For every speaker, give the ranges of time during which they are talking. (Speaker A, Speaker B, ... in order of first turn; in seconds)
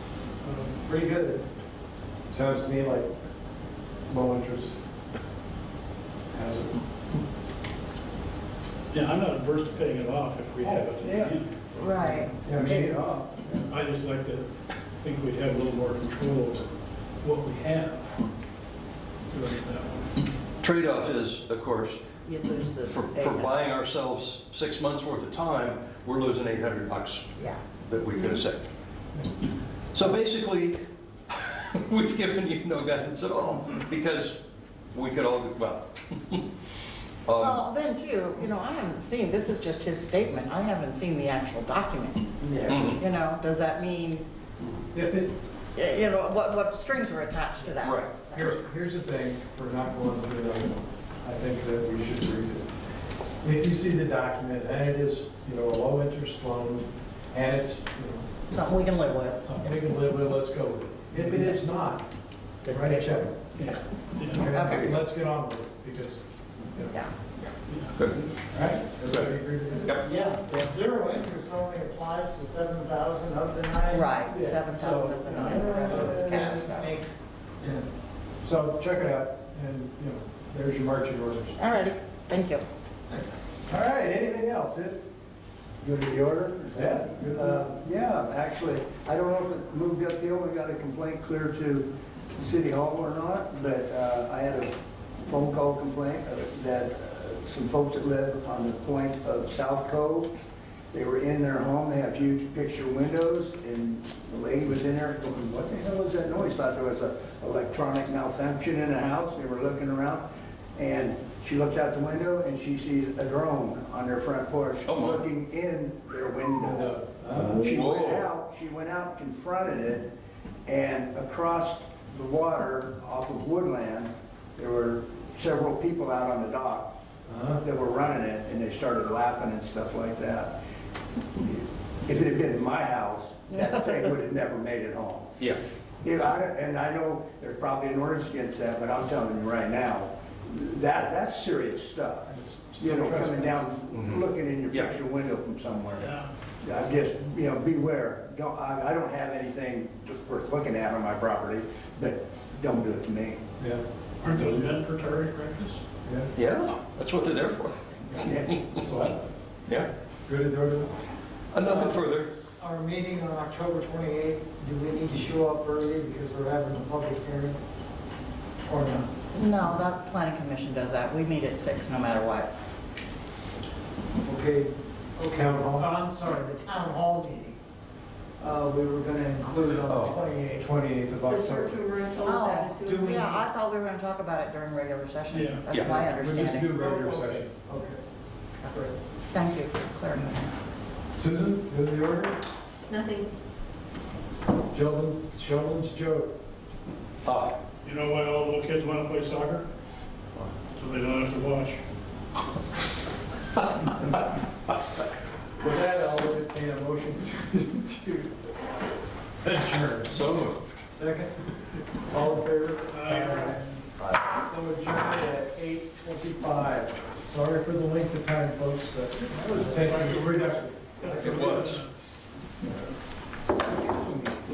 Speaker A: 0.4-1.4, 2.3-3.1, 4.1-4.8, 6.3-6.8, 12.4-13.0, 44.9-45.3, 48.3-52.7, 53.4-58.3, 59.5-62.0, 62.6-63.4, 64.3-66.2, 66.7-67.0, 68.5-70.0, 75.3-76.3, 78.4-81.6, 83.7-85.0, 86.7-87.7, 116.6-117.7, 127.3-127.6, 142.3-143.7, 153.6-153.8, 156.1-156.3, 158.8-159.2, 160.3-160.9, 175.3-175.9, 180.4-181.8, 185.8-187.5, 191.2-192.4, 194.7-196.3, 205.6-208.4, 209.4-210.2, 212.1-221.7
Speaker B: 8.9-11.6, 13.7-16.7, 17.2-18.2, 19.3-20.2, 64.2-64.5, 67.7-67.9, 146.0-146.3, 154.2-155.8, 185.3-185.6, 197.8-199.7, 200.8-201.8, 212.9-213.4, 221.0-222.0
Speaker C: 10.6-11.4, 12.5-13.7, 42.4-43.0, 85.8-94.7, 95.2-100.3, 100.9-110.2, 110.8-116.9, 117.5-120.1, 120.7-126.9, 127.6-130.5, 131.4-135.3, 136.0-146.1, 146.6-153.4, 158.2-158.5
Speaker D: 11.8-12.3, 22.2-23.7, 27.4-28.4, 37.4-42.4, 43.0-44.3, 45.8-48.5, 58.5-59.6, 64.5-64.9, 66.9-67.2, 73.9-76.9, 81.6-82.7, 169.3-172.5, 182.2-186.8, 189.3-190.5
Speaker E: 20.6-22.2, 22.9-28.7, 29.9-30.8, 31.3-34.4, 34.9-36.4, 37.3-37.6, 42.7-43.0, 47.8-48.2, 64.5-65.0, 68.0-68.2, 69.0-69.3, 114.9-115.2, 117.3-118.3, 144.0-144.9, 156.3-158.8, 161.5-162.3, 179.8-180.2, 185.7-186.0, 197.2-197.5, 210.1-210.6, 221.2-221.8
Speaker F: 70.0-77.9, 161.6-162.1, 162.6-167.6, 168.7-169.1, 174.2-177.6, 178.4-180.6, 182.8-183.5, 186.8-188.0, 188.7-188.9, 210.9-211.3, 213.1-213.9, 219.4-220.6
Speaker G: 181.3-183.0, 192.9-193.3